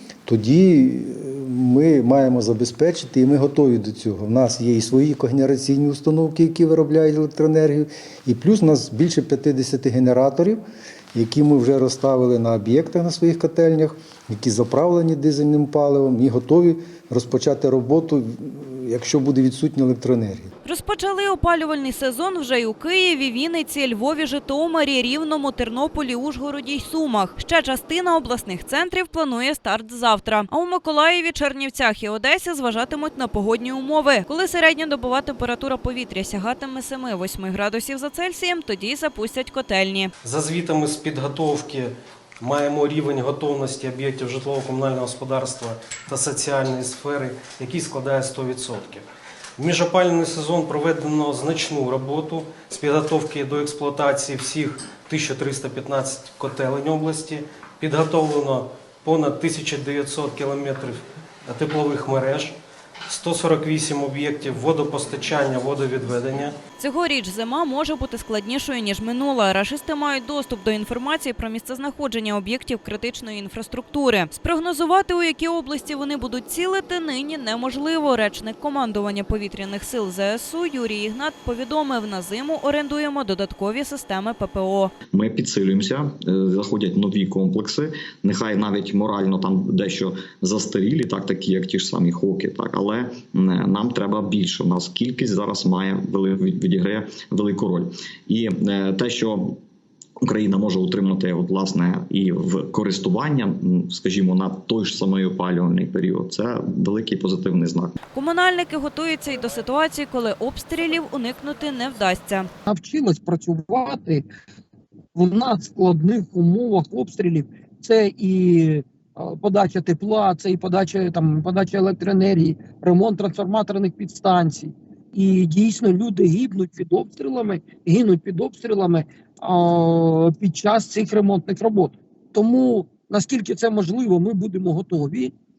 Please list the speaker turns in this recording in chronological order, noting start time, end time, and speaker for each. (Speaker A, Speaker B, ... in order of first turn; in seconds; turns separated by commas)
Speaker A: 0.3-10.6, Speaker A: 11.1-20.5, Speaker B: 20.7-40.1, Speaker C: 40.2-62.6, Speaker C: 63.1-66.6, Speaker B: 66.8-84.9, Speaker D: 85.1-99.6, Speaker D: 100.2-108.0, Speaker B: 108.1-112.5, Speaker E: 112.7-114.2, Speaker E: 115.2-135.3